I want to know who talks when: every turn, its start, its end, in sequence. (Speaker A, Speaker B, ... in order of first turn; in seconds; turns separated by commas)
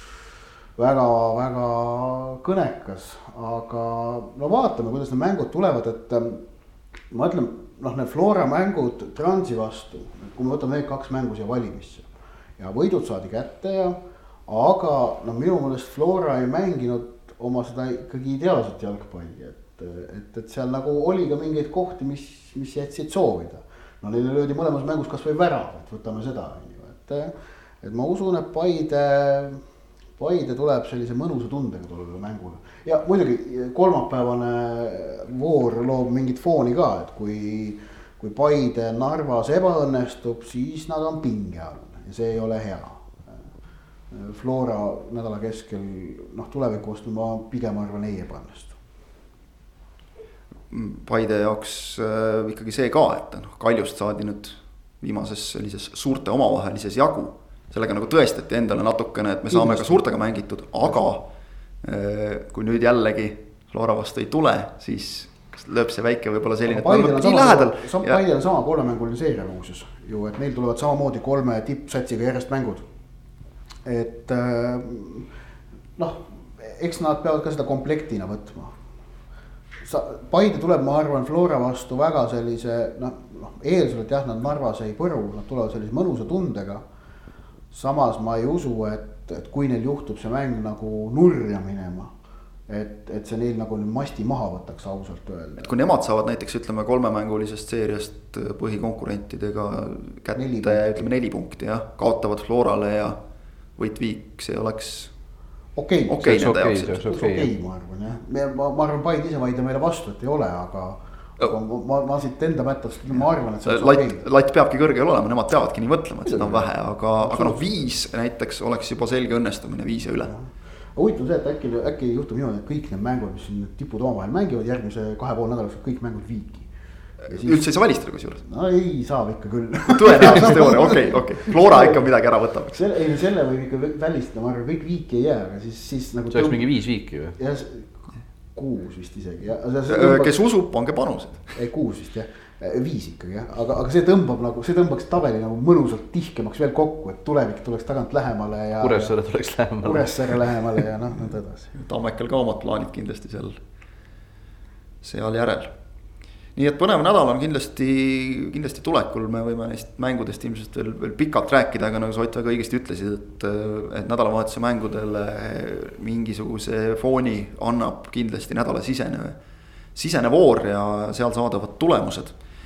Speaker A: 0.8-6.4, Speaker A: 7.1-12.1, Speaker A: 12.6-29.6, Speaker A: 30.2-43.2, Speaker A: 44.1-48.8, Speaker B: 50.7-61.3, Speaker A: 59.5-60.0, Speaker B: 61.8-68.2, Speaker A: 66.7-72.9, Speaker A: 73.8-75.3, Speaker A: 76.0-78.7, Speaker A: 79.8-86.8, Speaker A: 87.7-92.1, Speaker A: 92.7-95.7, Speaker B: 95.6-103.2, Speaker A: 100.3-100.8, Speaker B: 103.8-105.1, Speaker A: 105.8-106.3, Speaker B: 106.1-107.0, Speaker C: 106.2-107.5, Speaker A: 106.9-114.2, Speaker B: 113.7-120.3, Speaker A: 116.3-116.6, Speaker A: 117.2-117.6, Speaker A: 120.3-126.7, Speaker B: 127.2-128.4, Speaker A: 127.3-127.7, Speaker A: 128.4-132.1, Speaker B: 129.9-132.8, Speaker A: 132.7-136.7, Speaker C: 136.3-137.4, Speaker A: 137.4-137.9, Speaker A: 138.6-140.3, Speaker B: 139.9-141.4, Speaker A: 141.5-149.1, Speaker C: 148.8-150.6, Speaker A: 149.8-151.7, Speaker B: 151.7-153.6, Speaker B: 155.0-155.7, Speaker B: 156.6-169.4, Speaker B: 169.9-172.4